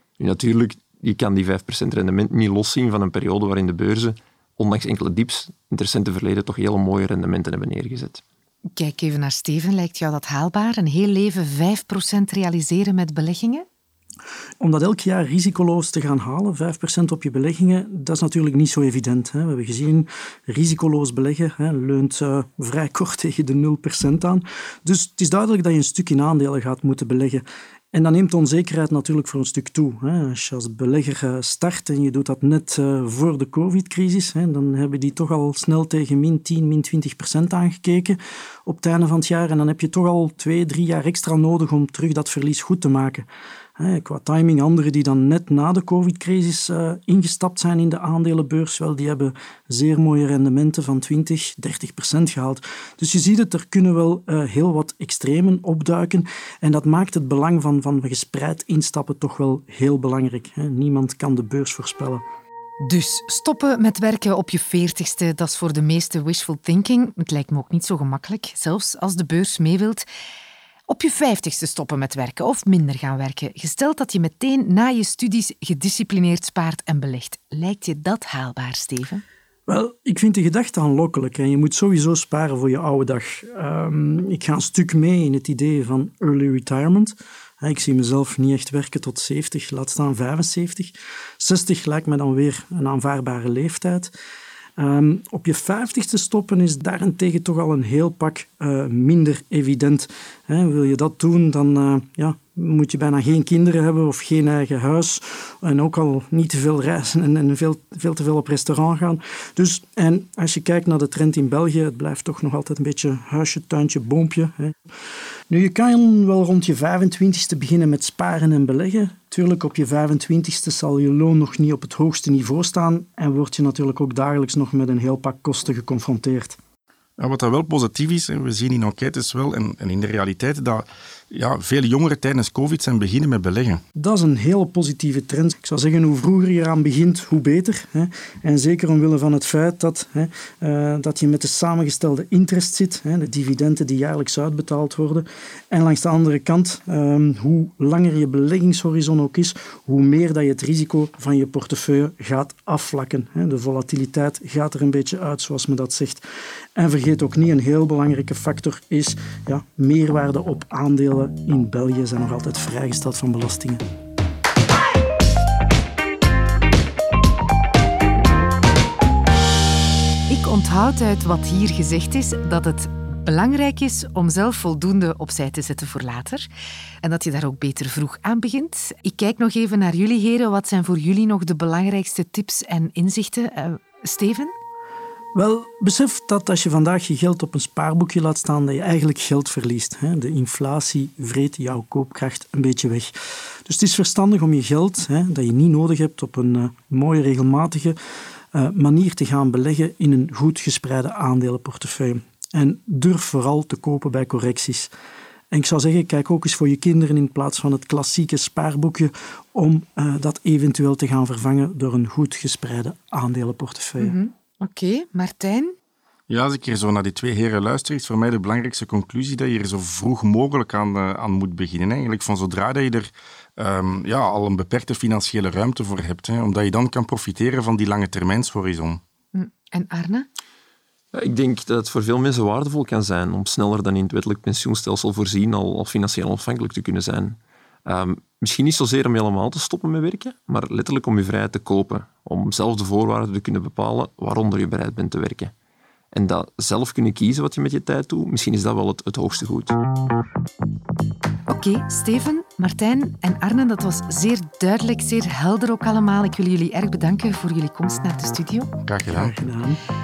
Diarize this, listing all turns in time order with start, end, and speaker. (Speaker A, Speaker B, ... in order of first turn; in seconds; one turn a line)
Speaker A: 0.2-8.2
Speaker B: 8.7-13.6
Speaker C: 14.6-43.3
Speaker C: 43.8-62.2
Speaker B: 62.8-70.0
Speaker B: 70.9-79.2
Speaker C: 79.7-94.1
Speaker C: 94.8-114.7
Speaker C: 115.5-126.6
Speaker D: 127.2-133.8
Speaker C: 133.9-156.2
Speaker C: 156.8-163.8
Speaker B: 170.3-176.5
Speaker B: 177.0-184.5
Speaker C: 185.3-193.1
Speaker C: 193.7-197.9
Speaker C: 198.5-204.9
Speaker C: 205.5-214.2
Speaker B: 214.0-215.7
Speaker D: 216.3-229.0
Speaker B: 229.3-230.3
Speaker A: 231.1-245.5
Speaker A: 246.1-249.8
Speaker B: 251.5-258.7
Speaker D: 258.8-259.3
Speaker C: 259.1-259.8